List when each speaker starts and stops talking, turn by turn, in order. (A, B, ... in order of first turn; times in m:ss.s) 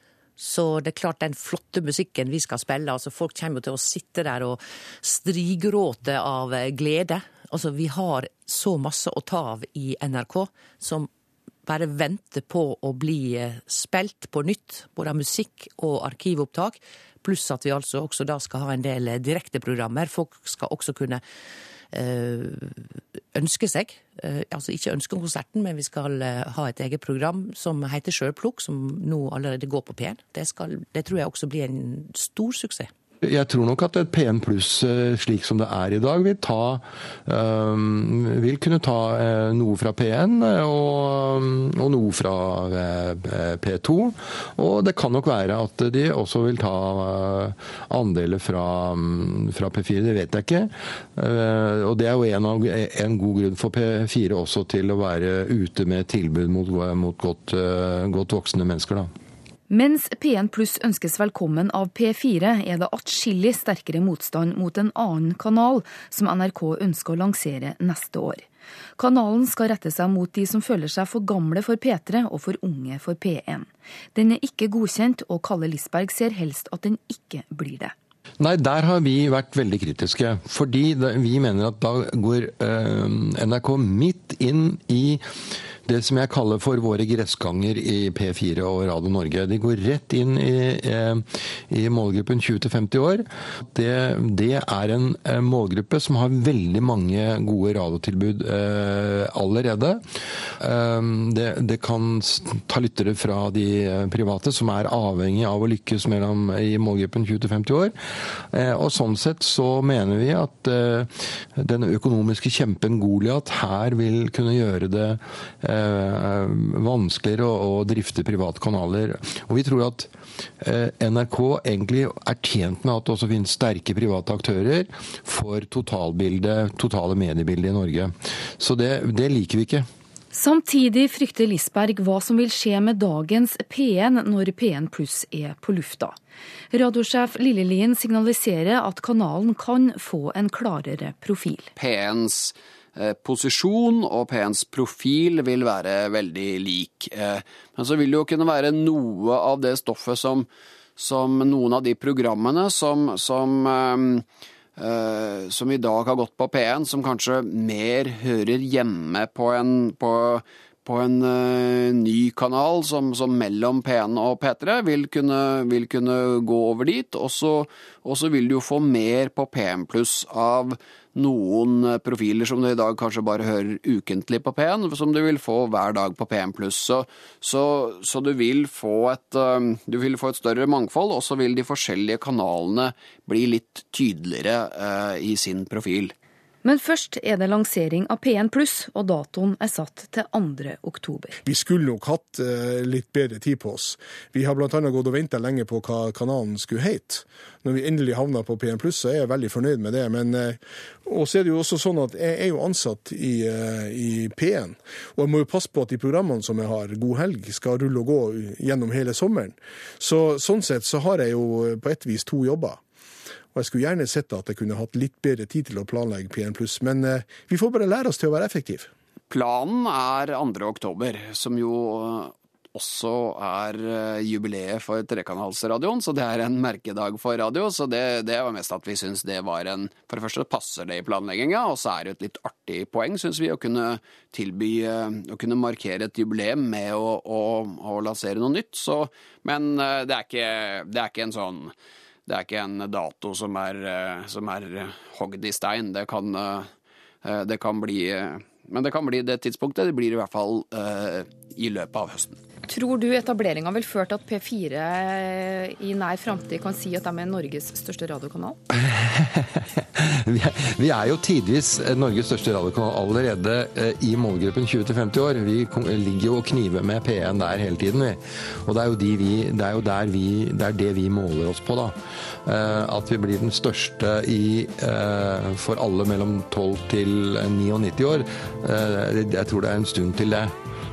0:00.4-0:11.1 A
0:11.7-0:21.2 A
0:21.9-0:32.9 A
0:33.2-0:59.1 B
0:59.7-1:08.4 C
1:09.0-1:17.9 C
1:18.4-1:25.2 B
1:25.8-1:40.0 B
1:40.6-2:09.9 B
2:10.3-2:16.2 C
2:16.7-2:21.7 C
2:21.8-2:34.3 D
2:34.8-3:06.1 D
3:06.6-3:11.4 C
3:11.4-3:32.8 E
3:33.5-3:38.9 E
3:39.3-4:01.7 D
4:02.3-4:06.7 D
4:07.2-4:12.4 D
4:12.7-4:18.6 C
4:18.7-4:40.5 B